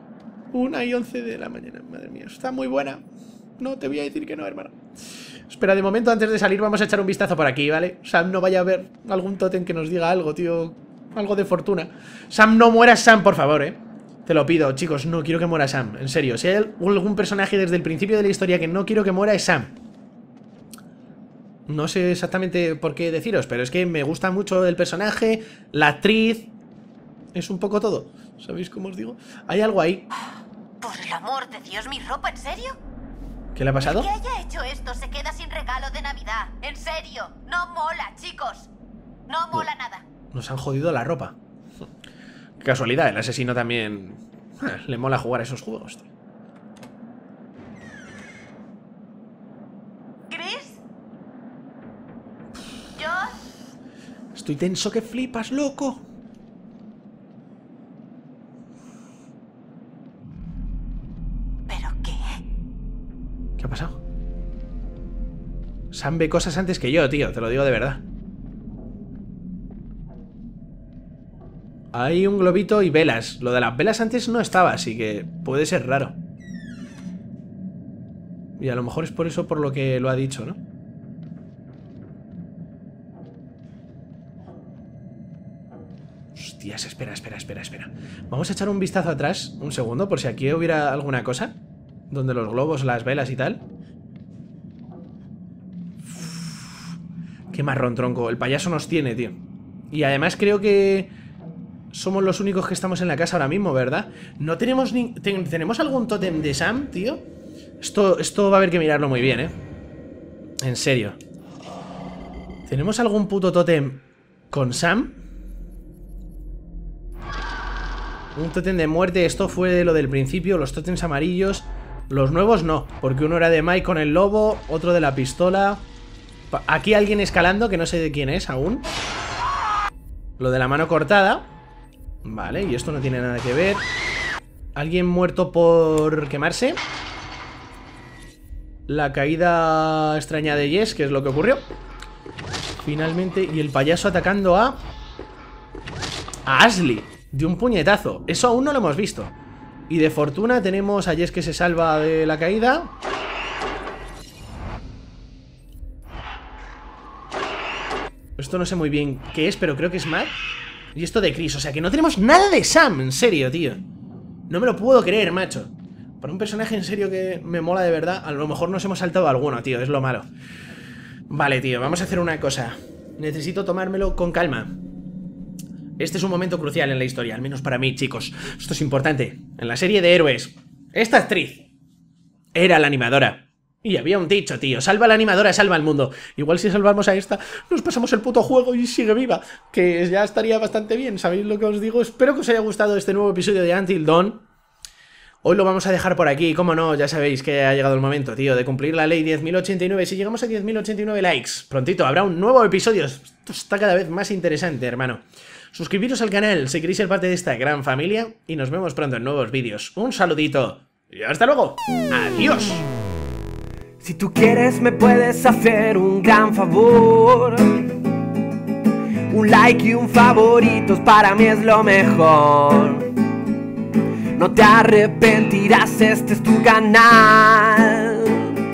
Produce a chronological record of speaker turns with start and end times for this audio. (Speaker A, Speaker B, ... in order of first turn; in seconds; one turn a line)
Speaker A: 0.5-3.0
Speaker A: 3.6-4.8
Speaker A: 5.5-19.8
Speaker A: 21.7-26.5
Speaker A: 27.3-30.1
Speaker B: 30.8-32.8
Speaker A: 33.5-34.1
Speaker B: 33.8-38.7
Speaker B: 39.3-40.0
Speaker A: 40.3-41.4
Speaker A: 42.6-46.1
Speaker B: 50.3-50.8
Speaker A: 54.3-56.0
Speaker B: 61.8-62.1
Speaker A: 63.6-64.0
Speaker A: 65.9-68.0
Speaker A: 71.9-76.2
Speaker A: 78.6-80.6
Speaker A: 86.4-91.6
Speaker A: 92.1-93.6
Speaker A: 96.1-96.7
Speaker A: 97.5-99.4
Speaker A: 99.9-101.1
Speaker A: 101.9-107.2
Speaker A: 107.8-109.6
Speaker A: 110.6-111.2
Speaker A: 112.7-115.2
Speaker A: 118.3-125.8
Speaker A: 126.5-128.9
Speaker A: 130.4-131.5
Speaker A: 132.2-133.8
Speaker A: 134.8-136.8
Speaker A: 138.9-141.7
Speaker A: 142.8-144.8
Speaker A: 146.5-149.3
Speaker A: 149.9-152.9
Speaker A: 158.4-160.4
Speaker A: 160.9-163.8
Speaker A: 164.5-170.3
Speaker A: 171.3-174.8
Speaker A: 176.0-181.7
Speaker A: 182.5-194.4
Speaker A: 195.4-212.9
Speaker C: 214.0-217.8
Speaker C: 219.3-223.1
Speaker C: 224.4-228.6